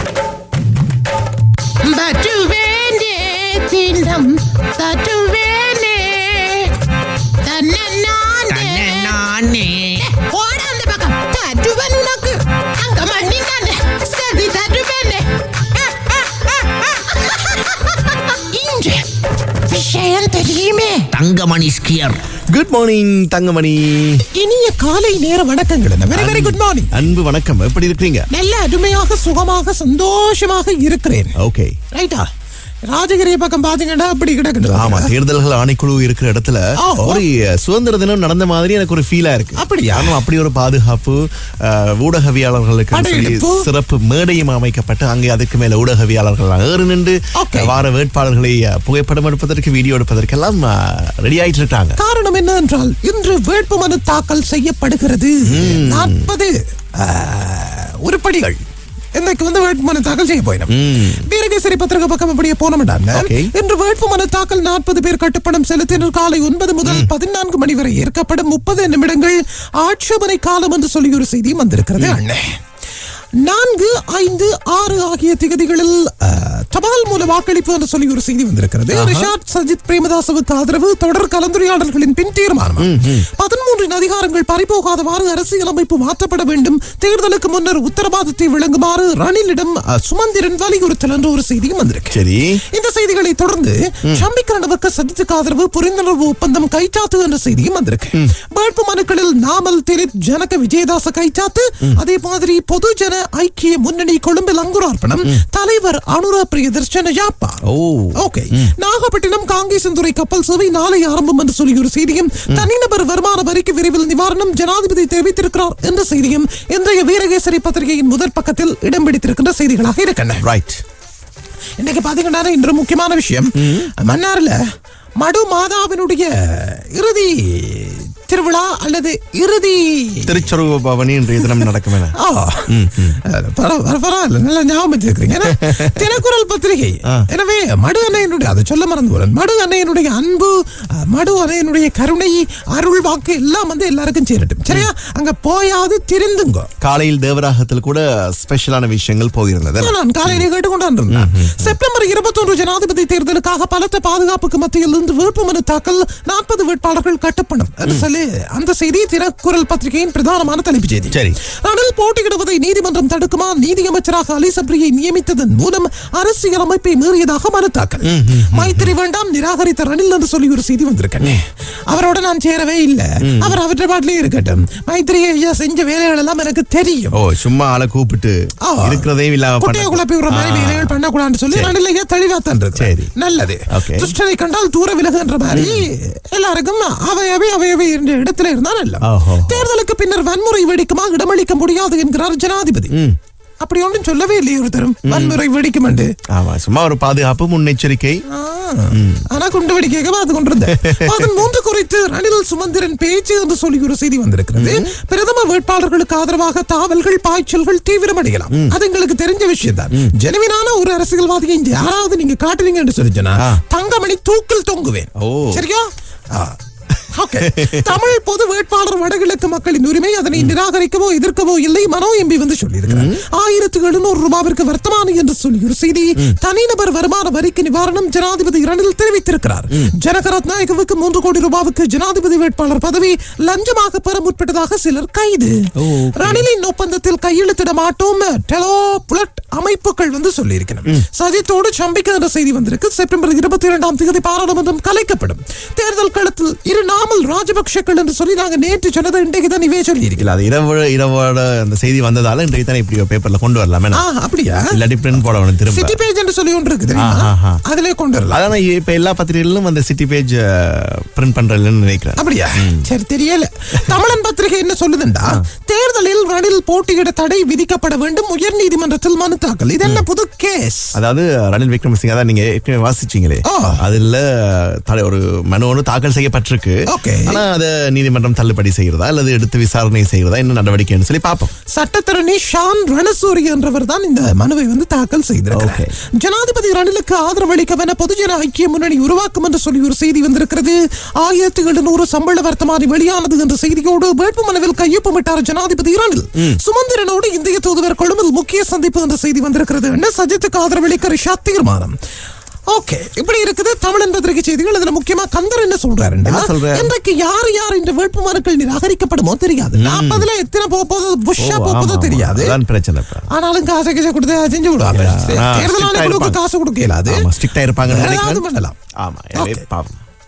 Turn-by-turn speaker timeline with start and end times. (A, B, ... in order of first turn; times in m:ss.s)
0:01.8-0:06.7 A
0:07.4-0:09.2 A
0:08.5-0:10.0 B
0:10.0-0:19.1 A
0:19.6-0:21.1 A
0:21.1-0:22.2 B
0:22.5-0:24.2 C
0:24.3-0:27.0 A
0:26.1-0:28.3 C
0:28.3-0:31.4 A
0:31.4-0:31.8 C
0:31.9-0:32.3 A
0:32.9-0:35.1 A
0:34.7-0:52.0 C
0:36.8-0:37.2 A
0:39.6-0:40.2 A
0:42.9-0:43.7 A
0:47.4-0:47.8 A
0:52.0-0:58.6 A
0:55.5-0:56.3 C
0:59.2-1:12.6 A
1:00.7-1:01.3 C
1:03.1-1:03.5 C
1:06.8-1:07.1 C
1:13.4-2:00.4 A
1:18.9-1:19.3 C
1:22.8-1:23.3 C
1:32.1-1:32.6 C
1:47.6-1:48.7 C
2:00.4-2:00.8 C
2:01.8-2:04.6 A
2:03.6-2:03.9 C
2:05.2-2:10.5 A
2:10.3-2:12.2 C
2:11.4-2:26.7 A
2:12.7-2:13.2 C
2:15.5-2:16.0 C
2:26.8-2:30.5 C
2:29.8-2:57.2 A
2:31.1-2:31.8 C
2:41.1-2:41.4 C
2:48.0-2:49.0 C
2:53.2-2:53.6 C
2:57.1-3:01.0 C
2:58.6-2:59.1 A
2:59.6-3:13.0 A
3:01.5-3:01.8 C
3:02.8-3:03.1 C
3:03.7-3:04.1 C
3:05.5-3:05.9 C
3:09.0-3:09.7 C
3:12.9-3:13.2 C
3:13.6-3:16.1 A
3:15.0-3:15.4 C
3:16.3-3:18.2 C
3:18.3-3:36.6 A
3:18.9-3:19.3 C
3:20.7-3:21.5 C
3:24.6-3:24.9 C
3:28.5-3:28.8 C
3:35.2-3:35.6 C
3:37.1-4:10.3 A
3:37.4-3:37.9 C
3:42.9-3:43.2 C
3:55.8-3:56.5 C
4:10.2-4:14.1 C
4:13.9-4:18.5 A
4:14.7-4:16.0 C
4:16.9-4:17.6 C
4:18.3-4:22.9 C
4:22.2-4:31.0 A
4:31.0-4:41.5 C
4:33.4-4:33.8 A
4:36.9-4:37.4 A
4:41.7-5:02.0 A
4:45.5-4:45.9 C
5:02.7-5:12.6 A
5:06.2-5:06.9 C
5:09.8-5:10.3 C
5:11.4-5:13.3 C
5:13.3-5:17.3 A
5:14.9-5:16.4 C
5:17.1-5:18.5 C
5:17.8-5:18.8 A
5:19.0-5:20.0 C
5:19.3-5:19.7 A